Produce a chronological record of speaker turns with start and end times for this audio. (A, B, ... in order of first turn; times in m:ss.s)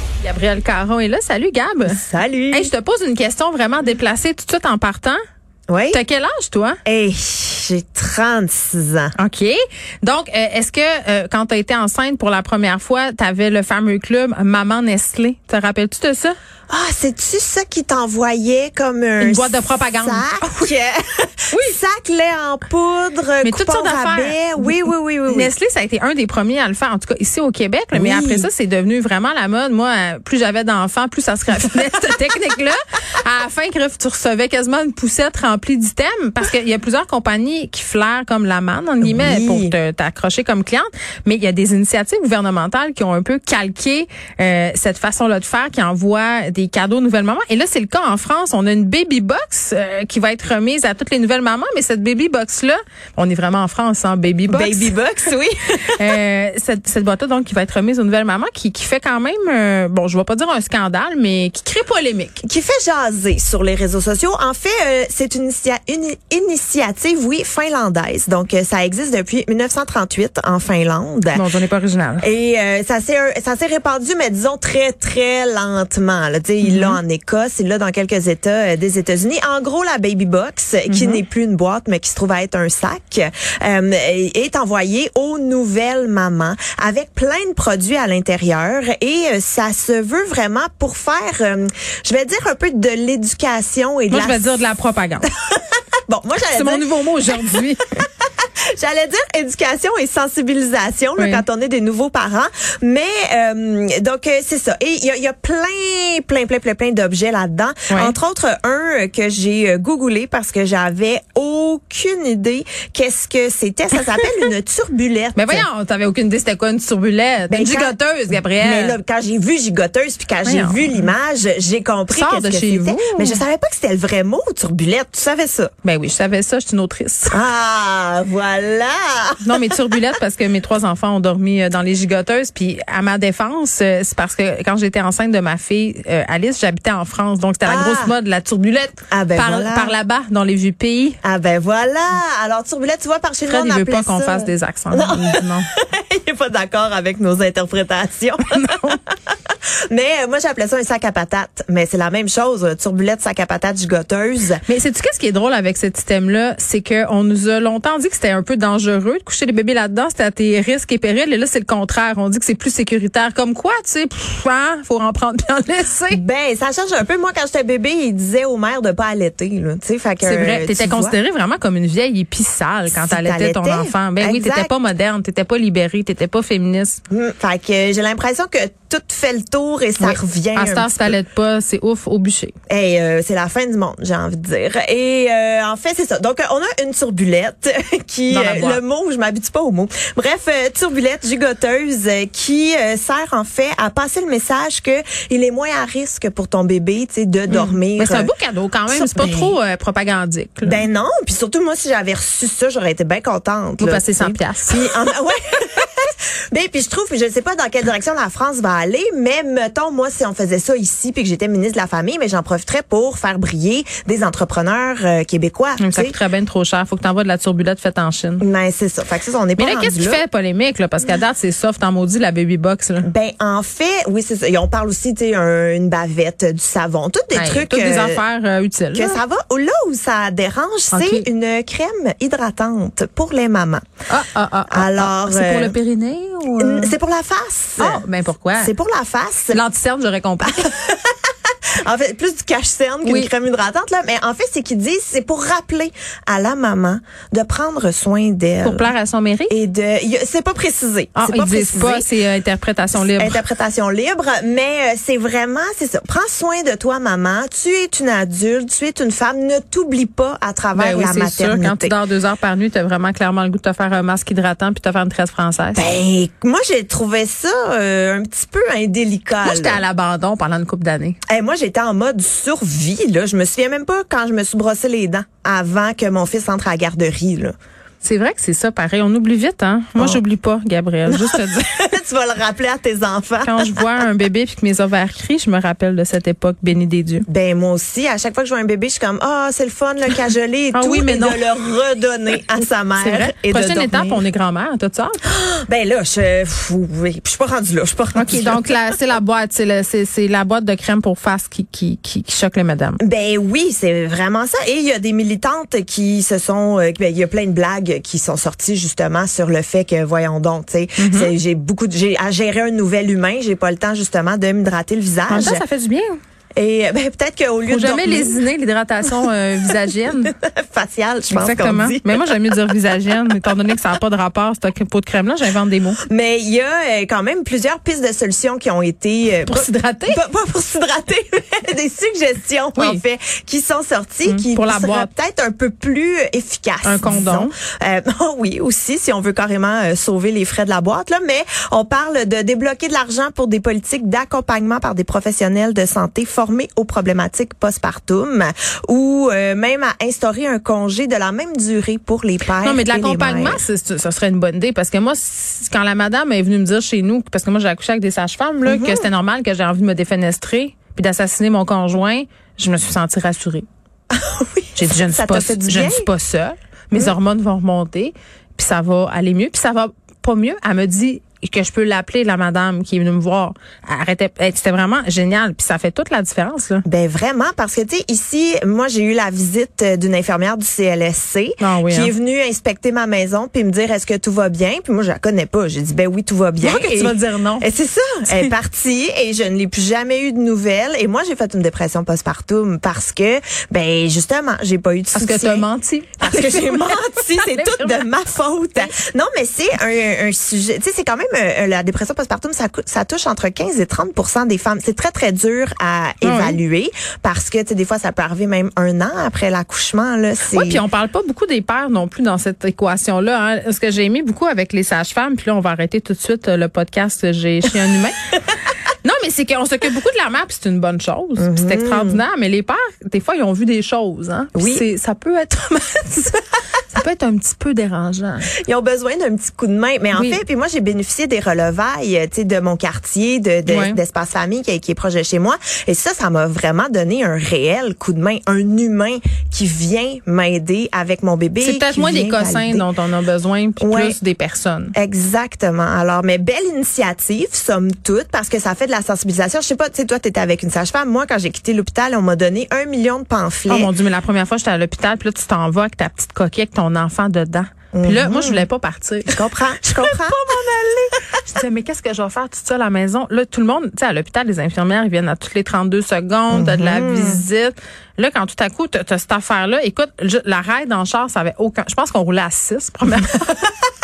0:00.2-0:05.2 A
0:01.8-0:02.7 B
0:05.7-0:06.0 B
0:05.9-0:06.8 A
0:06.8-0:09.1 B
0:09.2-0:16.3 A
0:16.7-0:25.5 B
0:19.2-0:20.7 A
0:21.5-0:21.8 A
0:23.4-0:54.9 A
0:27.9-0:28.5 B
0:39.0-0:39.8 B
0:54.5-0:56.1 B
0:55.9-1:02.4 A
1:02.4-1:11.4 B
1:11.3-1:12.3 A
1:12.2-1:34.6 B
1:16.6-1:17.0 A
1:20.9-1:21.2 A
1:34.1-1:35.3 A
1:35.2-1:37.7 B
1:36.5-1:37.9 A
1:38.8-1:55.7 B
1:41.2-1:41.4 A
1:47.9-1:48.1 A
1:53.9-1:54.4 A
1:55.3-1:59.0 A
1:57.5-1:58.0 B
1:58.6-2:05.7 B
2:00.4-2:01.1 A
2:02.1-2:03.4 A
2:05.8-2:07.4 A
2:07.3-2:10.0 B
2:09.4-2:21.2 A
2:17.6-2:18.1 B
2:19.1-2:20.0 B
2:21.2-2:29.3 B
2:23.5-2:25.7 A
2:28.5-2:29.0 A
2:29.9-2:34.6 B
2:34.6-2:46.2 A
2:46.1-2:51.2 B
2:50.2-2:57.0 A
2:52.9-2:54.7 B
2:57.1-3:01.2 B
3:00.0-3:02.5 A
3:02.7-3:18.3 B
3:08.3-3:08.8 A
3:17.5-3:20.8 A
3:18.9-3:19.6 B
3:20.6-3:36.2 B
3:23.8-3:24.9 A
3:35.8-3:38.4 A
3:38.4-3:40.2 B
3:39.6-3:43.1 A
3:43.0-3:48.2 B
3:47.3-3:49.2 A
3:48.9-3:53.8 B
3:50.9-3:51.3 A
3:54.1-3:56.9 A
3:54.7-3:55.8 B
3:56.6-3:59.6 B
3:57.8-3:58.7 A
3:59.5-4:00.7 A
4:00.4-4:01.2 B
4:01.8-4:08.9 B
4:03.0-4:03.3 A
4:08.6-4:09.5 A
4:09.5-4:12.1 B
4:11.1-4:13.4 A
4:12.9-4:22.0 B
4:20.7-4:25.9 A
4:25.7-4:29.8 B
4:29.4-4:31.2 A
4:31.3-4:37.5 B
4:38.0-4:41.8 A
4:40.0-4:40.2 B
4:41.0-4:44.1 B
4:43.4-4:47.2 A
4:47.3-4:54.2 B
4:50.7-4:51.4 A
4:53.0-4:55.2 A
4:55.2-4:59.0 B
4:58.1-5:03.0 A
5:03.0-5:15.6 B
5:11.0-5:11.3 A
5:15.3-5:16.2 A
5:16.6-5:18.4 B
5:17.6-5:20.3 A
5:19.0-5:23.1 B
5:21.3-5:26.0 A
5:26.0-5:53.6 B
5:29.4-5:30.2 A
5:32.8-5:33.0 A
5:34.2-5:35.1 A
5:36.8-5:37.5 A
5:52.6-6:03.6 A
5:58.6-5:59.1 B
6:04.1-6:06.1 B
6:04.8-6:16.8 A
6:16.8-6:35.7 B
6:21.6-6:22.1 A
6:26.6-6:27.7 A
6:28.3-6:28.5 A
6:35.1-6:38.1 A
6:36.2-6:50.8 B
6:46.2-6:46.6 A
6:50.4-6:58.3 A
6:59.0-7:08.5 A
7:01.4-7:02.2 B
7:04.5-7:04.8 B
7:08.6-7:22.9 B
7:10.1-7:10.4 A
7:13.7-7:14.0 A
7:21.6-7:24.9 A
7:23.8-7:24.2 B
7:24.9-7:33.9 B
7:33.7-7:53.7 A
7:37.9-7:38.6 B
7:39.3-7:41.2 B
7:46.5-7:47.4 B